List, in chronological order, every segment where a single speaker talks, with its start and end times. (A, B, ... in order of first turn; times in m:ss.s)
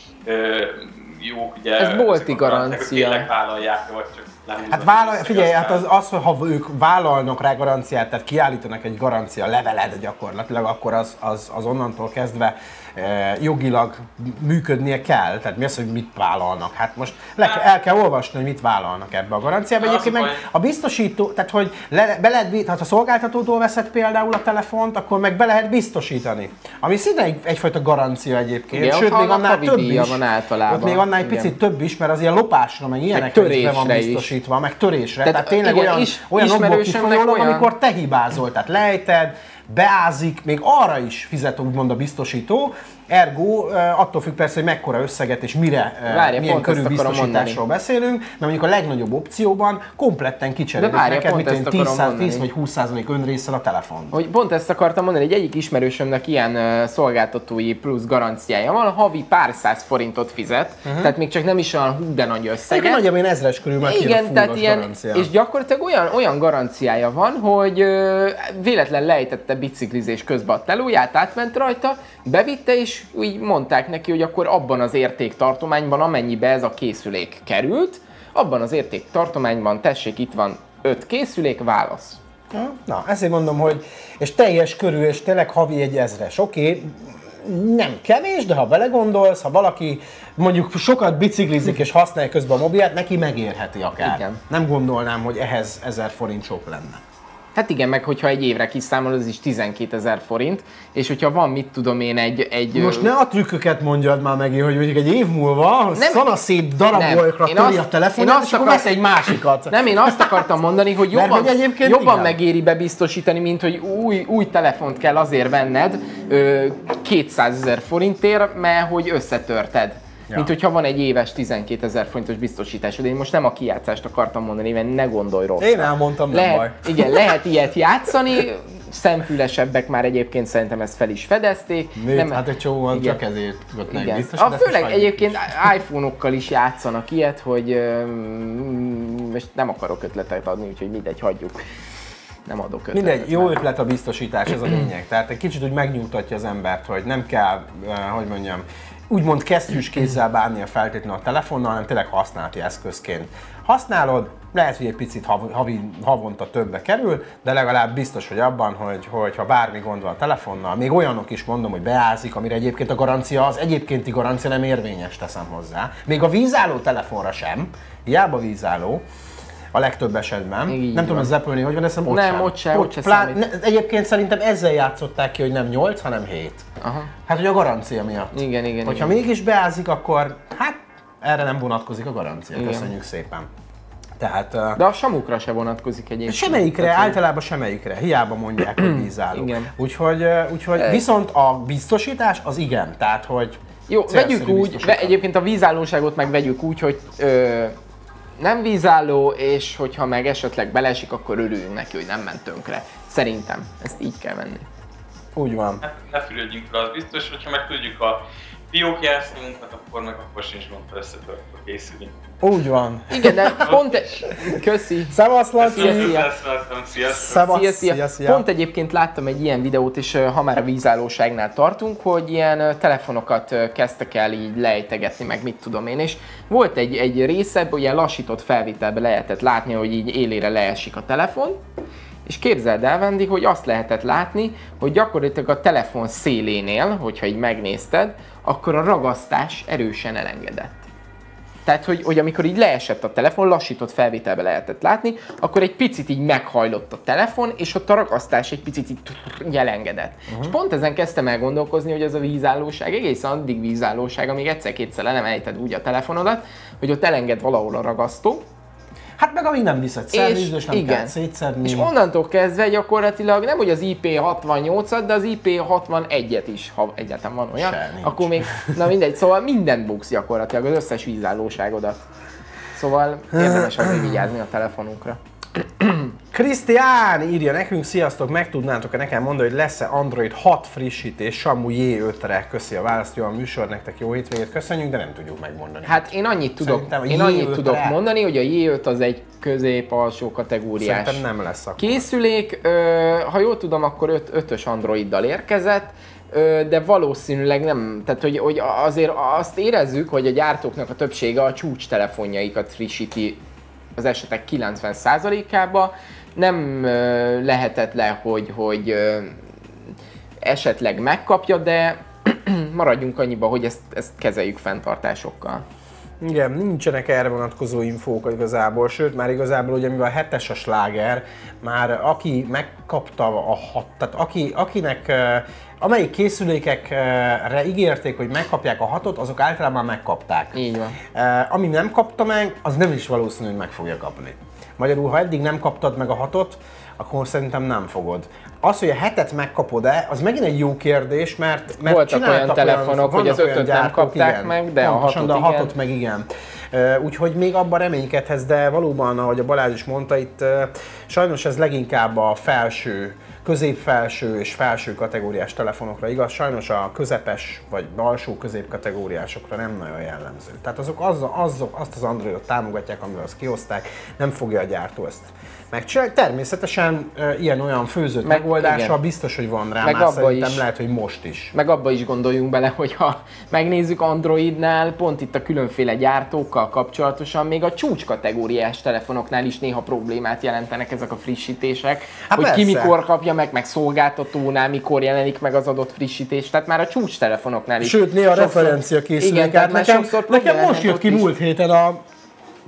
0:00.2-0:05.8 A
0:01.8-0:03.3 B
0:04.7-0:54.2 C
0:19.8-0:20.4 A
0:28.7-0:31.6 B
0:33.1-0:34.3 B
0:35.2-0:37.7 B
0:46.1-0:47.6 B
0:50.8-0:52.5 B
0:54.1-1:03.0 B
1:00.8-1:01.1 C
1:02.7-1:05.3 C
1:03.8-1:22.2 B
1:22.5-1:37.0 C
1:34.0-1:34.4 B
1:37.6-1:43.1 B
1:42.7-1:50.5 C
1:46.0-1:46.2 B
1:46.9-1:48.9 B
1:49.7-2:13.2 B
1:51.1-1:52.4 C
2:05.6-2:07.2 C
2:12.0-2:15.7 C
2:13.9-2:21.6 B
2:22.5-2:23.6 B
2:22.9-2:49.0 C
2:49.7-2:56.7 C
2:50.7-2:51.3 B
2:52.1-2:53.4 B
2:56.8-2:57.1 B
2:57.3-3:03.5 C
2:58.3-2:59.2 B
3:02.6-3:02.9 B
3:04.2-3:04.8 C
3:04.8-3:07.2 B
3:06.3-3:15.2 C
3:08.8-3:09.7 B
3:10.8-3:11.0 B
3:13.9-3:17.7 B
3:18.4-3:24.7 B
3:25.4-3:25.8 C
3:25.8-3:28.2 A
3:28.7-3:32.2 A
3:32.4-3:33.7 C
3:33.1-3:36.3 B
3:34.3-3:34.6 C
3:35.1-3:36.2 C
3:35.6-3:37.4 A
3:37.1-3:38.4 C
3:37.3-3:51.6 B
3:52.3-4:00.9 B
4:01.6-4:18.4 B
4:10.3-4:10.6 C
4:19.2-4:21.9 C
4:20.1-4:32.0 B
4:27.6-4:28.8 C
4:32.7-4:36.1 B
4:33.3-4:34.2 C
4:36.3-4:48.0 C
4:45.9-4:51.2 B
4:50.8-4:52.1 C
4:51.8-5:03.4 B
5:04.0-5:09.4 B
5:10.4-5:15.6 B
5:16.2-5:30.6 C
5:30.5-5:31.0 B
5:31.1-6:11.5 C
5:41.8-5:45.7 B
6:08.2-6:09.0 B
6:09.8-6:10.6 B
6:11.5-6:31.3 B
6:22.3-6:23.0 C
6:27.8-6:32.0 C